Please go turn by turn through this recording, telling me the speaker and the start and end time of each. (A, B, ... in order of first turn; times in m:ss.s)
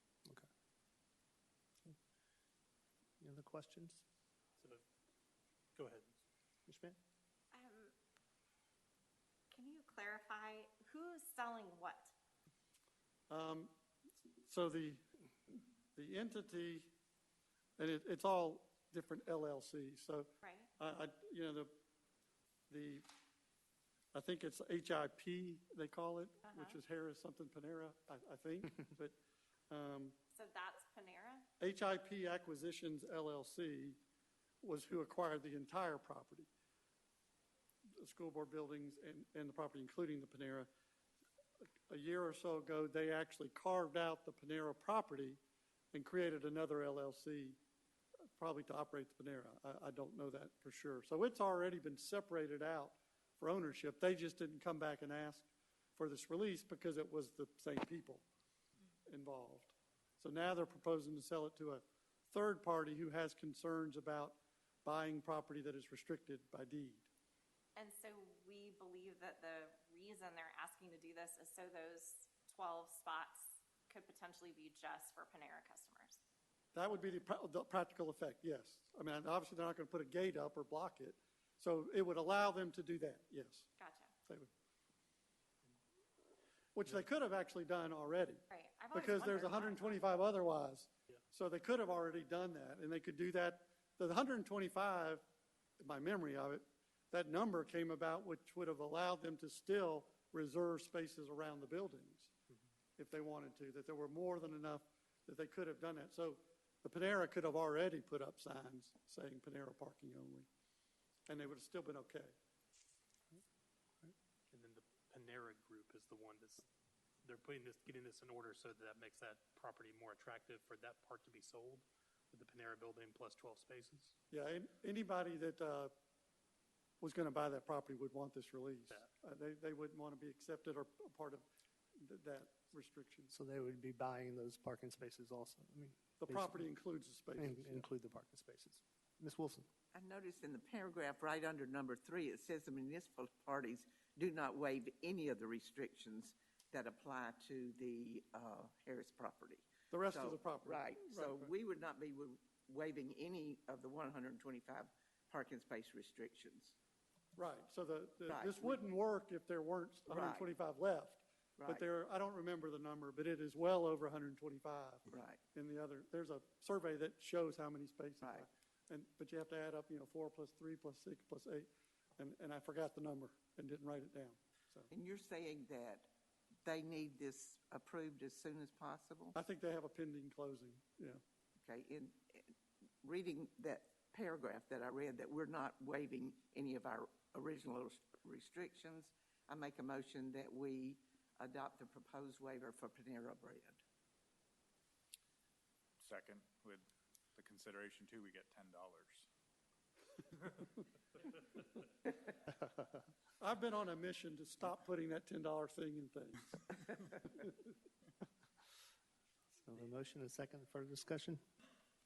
0:03.2-0:04.0 A
0:05.8-0:06.1 B
0:06.7-0:07.0 A
0:07.5-0:07.9 C
0:09.5-0:12.1 C
0:13.3-0:13.7 D
0:14.4-0:15.0 D
0:16.0-0:16.9 D
0:17.8-0:21.7 D
0:20.4-0:20.7 C
0:22.7-0:23.1 D
0:24.1-0:29.2 D
0:26.4-0:26.8 C
0:29.7-0:30.2 D
0:30.4-0:31.5 C
0:31.6-0:34.0 D
0:34.6-0:36.5 D
0:38.0-0:40.7 D
0:41.9-0:45.4 D
0:45.9-0:47.6 D
0:48.4-0:58.3 D
0:59.1-1:07.1 D
1:07.8-1:16.2 C
1:16.7-1:23.7 D
1:23.8-1:24.1 C
1:26.8-1:35.2 D
1:28.5-1:30.0 C
1:35.8-1:42.3 D
1:43.0-1:50.5 D
1:51.3-1:52.3 D
1:54.5-1:56.7 B
1:57.2-2:04.1 B
2:04.3-2:05.9 D
2:07.0-2:11.4 D
2:12.0-2:13.3 D
2:13.3-2:16.7 A
2:16.2-2:17.8 D
2:17.4-2:19.6 A
2:19.9-2:36.8 E
2:29.9-2:31.5 D
2:37.4-2:54.9 D
2:38.3-2:38.8 E
2:40.2-2:40.5 E
2:45.1-2:45.4 E
2:54.9-2:56.1 E
2:56.6-2:59.3 E
2:59.3-3:01.2 D
3:01.6-3:02.5 E
3:03.0-3:13.8 E
3:16.0-3:19.3 F
3:23.4-3:26.6 D
3:29.6-3:31.4 A